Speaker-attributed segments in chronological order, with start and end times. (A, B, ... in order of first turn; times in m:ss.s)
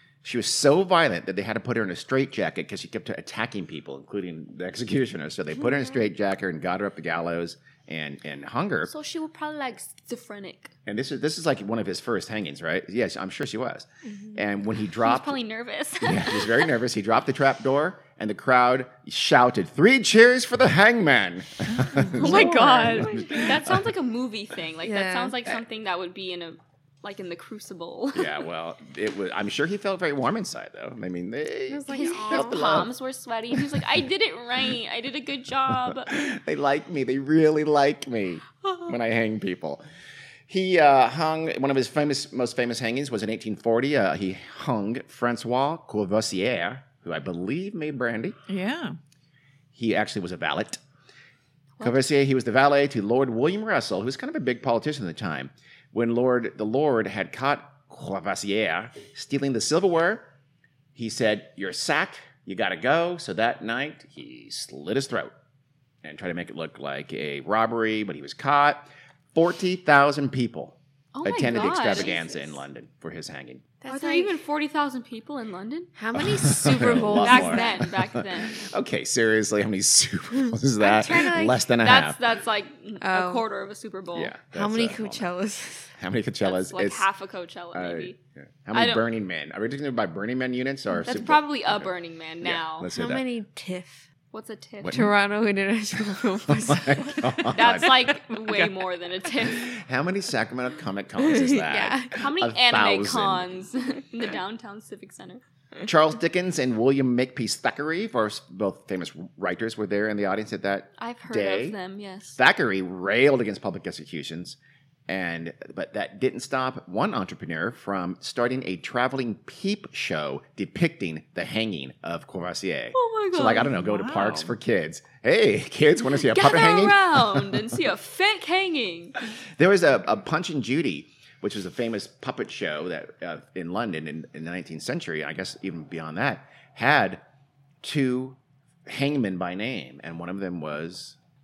0:00.2-0:08.9 A
0:08.8-0:10.7 B
0:10.8-0:15.4 A
0:15.0-0:16.7 B
0:16.0-0:23.9 A
0:21.7-0:23.4 C
0:22.1-0:28.4 B
0:24.8-0:25.3 D
0:28.1-0:32.9 A
0:31.7-0:32.9 D
0:31.9-0:36.1 B
0:35.8-0:39.8 A
0:40.5-0:48.4 A
0:48.5-0:49.0 C
0:49.7-0:50.8 A
0:51.8-1:00.2 A
1:00.9-1:05.3 A
1:06.0-1:13.6 A
1:11.1-1:12.6 B
1:13.8-1:14.4 D
1:13.9-1:15.9 B
1:16.0-1:17.9 D
1:16.1-1:22.2 A
1:16.8-1:18.6 B
1:20.8-1:21.6 D
1:21.8-1:24.3 B
1:23.0-1:23.4 D
1:24.1-1:25.3 A
1:24.5-1:25.9 D
1:26.0-1:27.0 A
1:26.4-1:28.2 B
1:27.7-1:33.3 A
1:28.7-1:29.0 B
1:31.0-1:32.9 B
1:32.9-1:34.0 D
1:34.3-1:35.0 B
1:34.8-1:35.1 A
1:34.9-1:37.5 D
1:36.5-1:38.2 A
1:37.5-1:39.7 B
1:38.4-1:38.7 C
1:39.4-1:43.5 A
1:41.2-1:42.1 D
1:42.1-1:45.4 B
1:45.8-1:51.8 A
1:51.0-1:52.4 B
1:52.4-2:07.7 A
2:02.9-2:03.8 B
2:03.7-2:04.5 C
2:06.2-2:09.2 B
2:09.6-2:17.2 A
2:17.8-2:21.2 A